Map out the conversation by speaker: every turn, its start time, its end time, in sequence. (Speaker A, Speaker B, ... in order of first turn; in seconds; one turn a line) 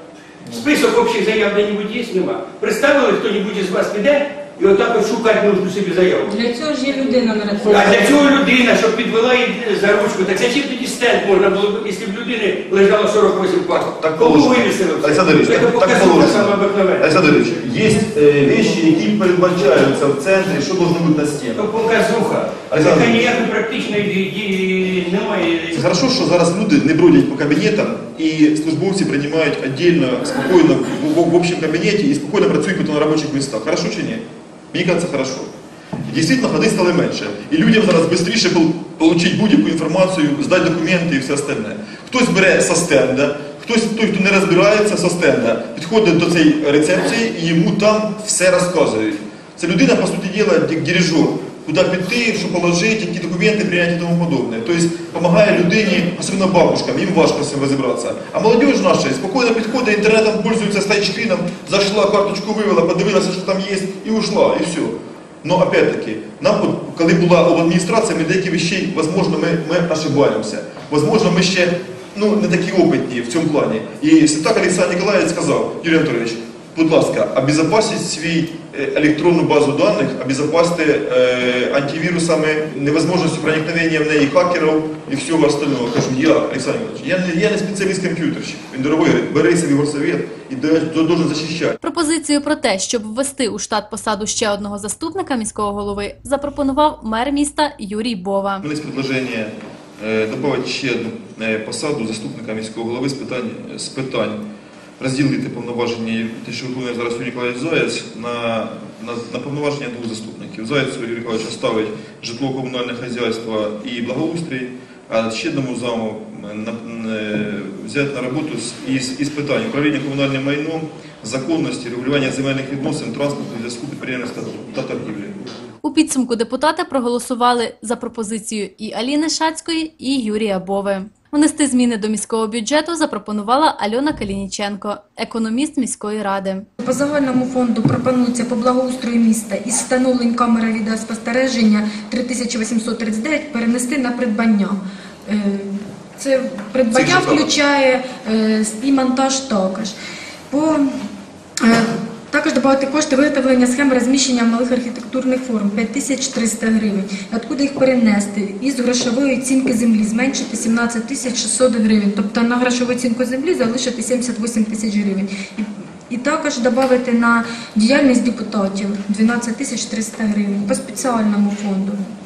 Speaker A: 0.5-6.3
Speaker B: 6.2-8.2
Speaker A: 7.7-17.1
Speaker C: 13.7-21.6
Speaker A: 21.6-25.8
Speaker C: 22.7-23.2
Speaker C: 25.7-35.5
Speaker C: 36.1-91.8
Speaker D: 91.8-98.7
Speaker C: 98.6-104.4
Speaker C: 105.0-125.3
Speaker D: 125.8-136.7
Speaker E: 136.8-149.9
Speaker C: 146.9-147.5
Speaker E: 150.5-151.0
Speaker E: 151.6-172.0